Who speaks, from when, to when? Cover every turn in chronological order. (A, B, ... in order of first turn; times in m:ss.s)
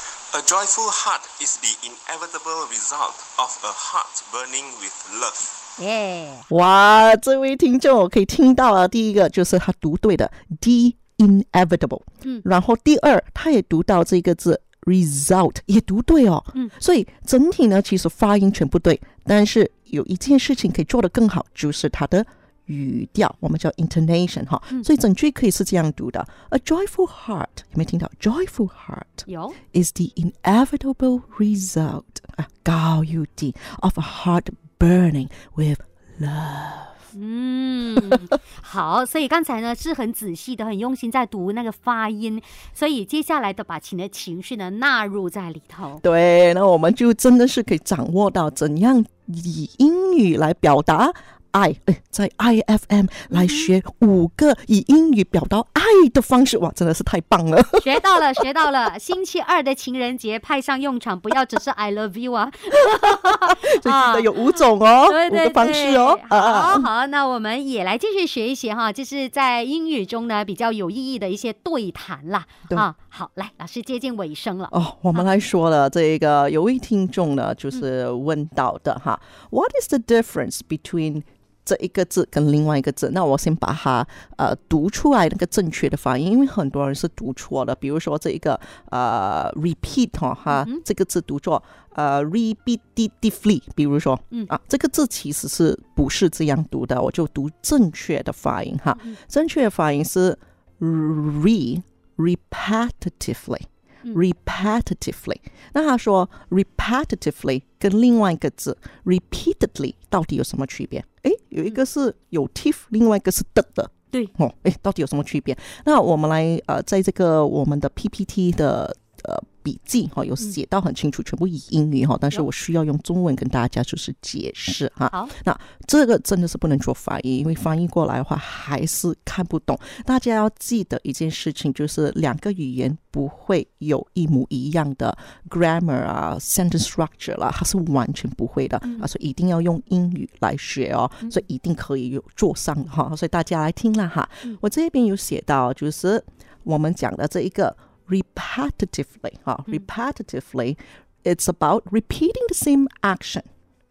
0:00.3-0:05.6 A
0:05.8-0:06.4 B
0:06.5-0:37.0 C
0:29.3-0:29.6 B
0:37.1-0:46.0 B
0:46.0-0:58.4 C
0:53.3-0:53.7 B
0:57.8-1:15.3 B
1:03.0-1:06.9 C
1:14.7-2:33.5 C
1:30.5-1:30.8 B